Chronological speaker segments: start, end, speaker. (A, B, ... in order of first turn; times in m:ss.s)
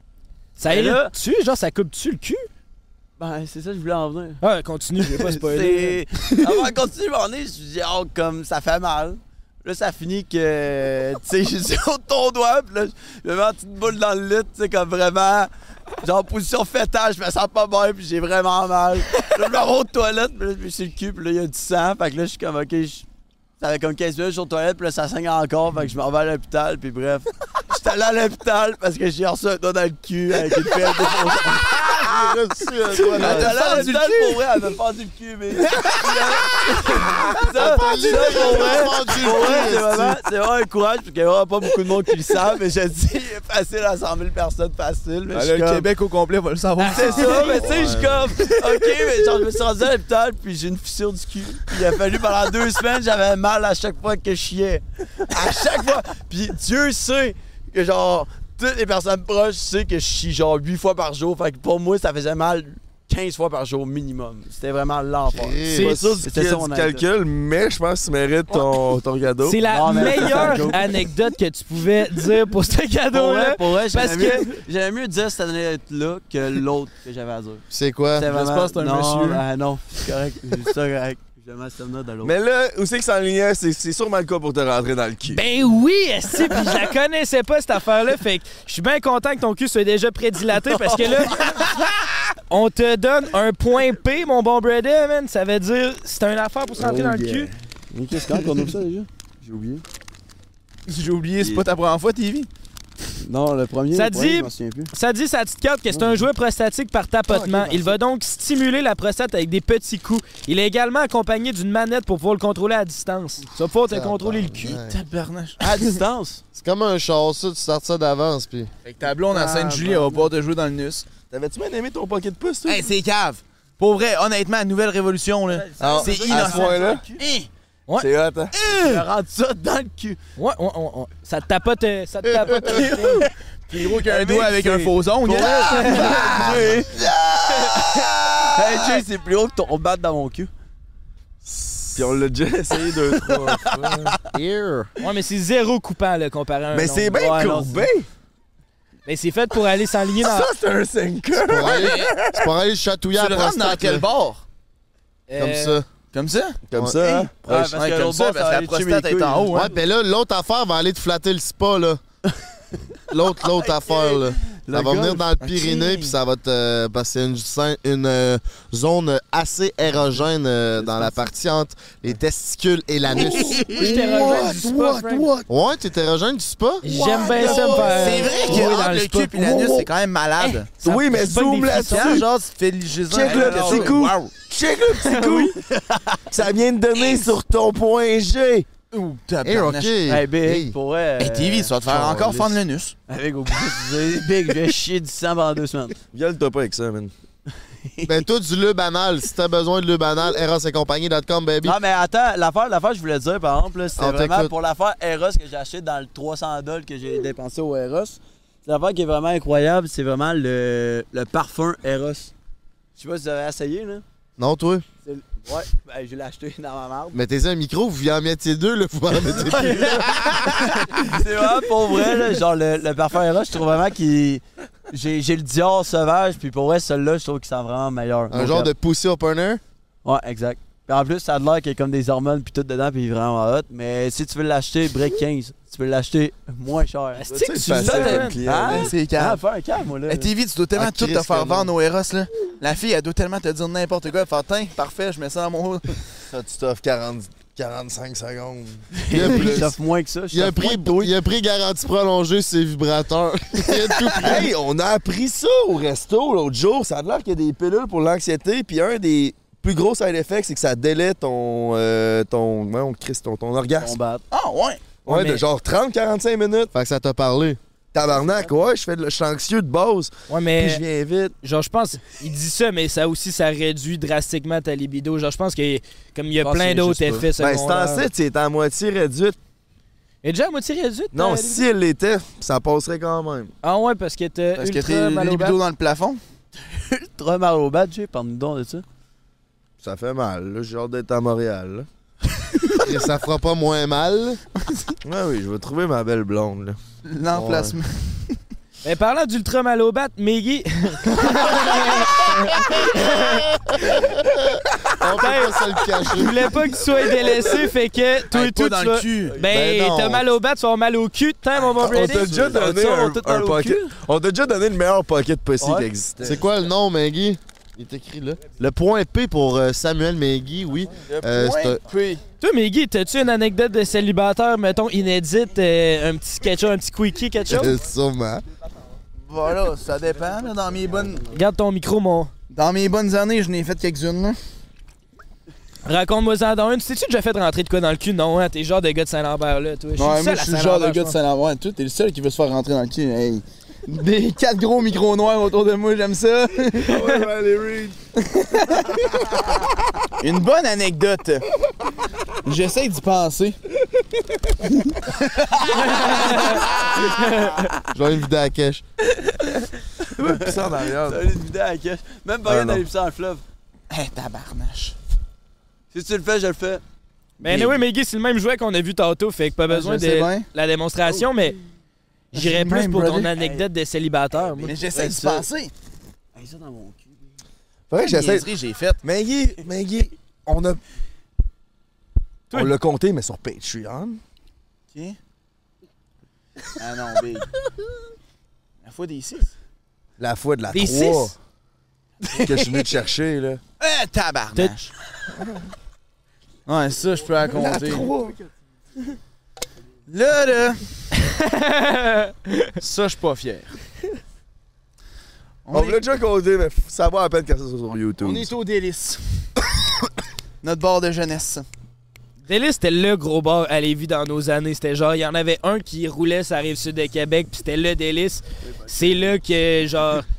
0:00.6-0:02.5 A
0:00.6-0:01.1 B
0:03.2-0:04.4 B
0:04.4-0:06.0 A
0:05.1-0:15.5 B
0:16.0-0:23.0 B
0:23.6-0:32.1 B
0:31.7-0:33.9 C
0:33.0-0:45.9 B
0:33.0-0:34.4 D
0:37.4-0:40.2 C
0:45.3-0:47.5 D
0:46.8-0:47.6 A
0:46.8-1:07.0 B
0:47.4-0:48.3 C
1:05.3-1:06.1 C
1:05.7-1:09.6 E
1:09.4-1:14.5 A
1:09.6-1:10.9 B
1:13.1-1:17.6 B
1:17.7-1:18.3 C
1:18.2-1:22.3 B
1:18.2-1:19.4 D
1:22.2-1:25.4 E
1:25.3-1:31.6 A
1:30.7-1:31.7 B
1:32.5-1:37.5 A
1:36.8-1:39.8 B
1:40.9-1:42.5 D
1:43.2-1:44.9 B
1:43.9-1:54.8 A
1:45.9-1:46.2 B
1:47.3-1:47.9 B
1:53.9-1:54.9 C
1:54.6-1:56.0 D
1:55.6-1:56.4 B
1:56.5-1:58.7 C
1:58.8-2:01.0 D
1:59.3-2:00.2 B
2:01.3-2:02.9 E
2:02.6-2:07.5 D
2:05.5-2:07.2 B
2:05.8-2:07.0 E
2:08.0-2:08.5 E
2:08.5-2:09.0 D
2:08.6-2:10.2 B
2:10.4-2:13.2 A
2:12.6-2:16.0 D
2:13.7-2:17.1 B
2:15.4-2:16.3 A
2:16.1-2:18.8 E
2:18.5-2:20.5 B
2:21.9-2:24.1 E
2:22.8-2:24.2 B
2:24.5-2:24.8 C
2:25.0-2:27.8 A
2:26.7-2:28.1 E
2:27.3-2:27.9 B
2:29.0-2:30.5 A
2:30.2-2:32.4 E
2:31.4-2:34.0 C
2:31.6-2:32.1 D
2:33.1-2:34.4 D
2:35.3-2:35.8 A
2:35.4-2:35.8 C
2:36.1-2:36.6 D
2:36.7-2:37.6 E
2:36.7-2:37.0 C
2:37.4-2:39.7 D
2:37.4-2:39.6 B
2:39.5-2:42.0 C
2:43.1-2:53.7 C
2:43.6-2:45.4 B
2:45.4-2:46.1 D
2:53.1-2:55.5 E
2:53.7-2:55.3 A
2:55.5-2:56.8 C
2:56.8-2:59.6 A
2:56.9-2:58.7 E
2:57.3-3:00.7 D
3:00.4-3:02.2 A
3:00.8-3:02.2 E
3:01.8-3:04.3 D
3:03.1-3:05.5 E
3:03.3-3:03.6 A
3:03.3-3:04.1 B
3:05.0-3:05.6 A
3:05.6-3:06.3 B
3:06.3-3:08.7 E
3:08.9-3:10.0 D
3:09.4-3:10.7 C
3:10.0-3:12.6 B
3:11.2-3:12.9 D
3:13.1-3:16.0 B
3:16.1-3:17.1 E
3:17.8-3:18.2 B
3:18.0-3:21.8 C
3:21.6-3:32.3 B
3:24.0-3:24.5 C
3:33.0-3:34.0 B
3:34.4-3:34.8 C
3:35.0-3:37.2 B
3:37.1-3:40.8 C
3:39.5-3:40.5 A
3:40.9-3:48.7 B
3:48.3-3:49.6 C
3:50.0-4:00.3 B
3:57.2-3:58.4 A
3:57.3-3:58.9 E
3:58.6-3:59.4 D
4:00.1-4:06.0 D
4:00.8-4:01.7 C
4:06.3-4:09.7 E
4:08.9-4:11.1 B
4:09.1-4:09.7 C
4:10.3-4:14.5 C
4:14.2-4:24.0 E
4:23.8-4:24.2 B
4:24.3-4:24.9 D
4:25.0-4:25.4 A
4:25.0-4:26.7 E
4:26.7-4:27.6 C
4:27.9-4:31.3 E
4:28.1-4:28.6 B
4:30.3-4:30.8 A
4:31.4-4:38.1 A
4:36.4-4:37.3 B
4:37.4-4:39.4 E
4:40.2-4:41.6 A
4:41.1-4:43.5 E
4:43.6-4:45.6 A
4:44.6-4:46.2 D
4:46.6-4:48.8 B
4:49.8-4:51.9 E
4:52.8-4:54.4 C
4:55.0-4:56.8 E
4:57.0-4:58.2 D
4:57.3-4:57.7 C
4:58.8-5:03.5 A
5:03.8-5:06.4 C
5:05.2-5:13.0 A
5:08.3-5:09.4 D
5:09.5-5:10.2 E
5:11.8-5:16.4 E
5:11.8-5:13.9 B
5:15.6-5:16.3 B
5:16.2-5:21.8 C
5:21.1-5:22.2 D
5:22.4-5:27.8 A
5:27.5-5:28.4 C
5:29.3-5:31.2 D
5:31.3-5:32.3 A
5:32.5-5:34.4 D
5:35.8-5:41.2 A
5:40.0-5:47.0 D
5:46.8-5:48.0 E
5:48.2-5:49.1 D
5:50.2-5:51.4 D
5:52.4-5:53.6 D
5:55.1-5:55.7 D
5:55.8-5:57.6 A
5:57.9-5:58.8 C
5:59.2-6:03.4 B
6:00.2-6:01.3 E
6:02.5-6:02.8 E
6:03.9-6:05.0 D
6:05.9-6:06.8 B
6:07.4-6:11.6 A
6:07.4-6:07.7 B
6:09.7-6:10.5 D
6:12.3-6:14.7 A
6:12.3-6:13.3 D
6:13.4-6:13.6 B
6:14.6-6:15.7 D
6:14.6-6:15.5 B
6:16.3-6:17.3 B
6:17.9-6:18.5 E
6:18.0-6:19.0 D
6:19.0-6:20.8 E
6:22.5-6:24.2 E
6:24.9-6:25.2 D
6:26.8-6:27.5 D
6:28.8-6:29.5 D
6:30.2-6:31.3 E
6:30.7-6:31.3 A
6:32.3-6:33.6 E
6:33.8-6:34.9 D
6:36.6-6:38.1 D
6:37.5-6:38.4 E
6:40.1-6:40.8 D
6:41.2-6:42.7 A
6:42.8-6:43.7 D
6:45.6-6:46.0 D
6:45.7-6:48.5 E
6:48.2-6:49.2 D
6:50.6-6:51.6 D
6:52.4-7:00.2 A
6:58.6-6:59.3 B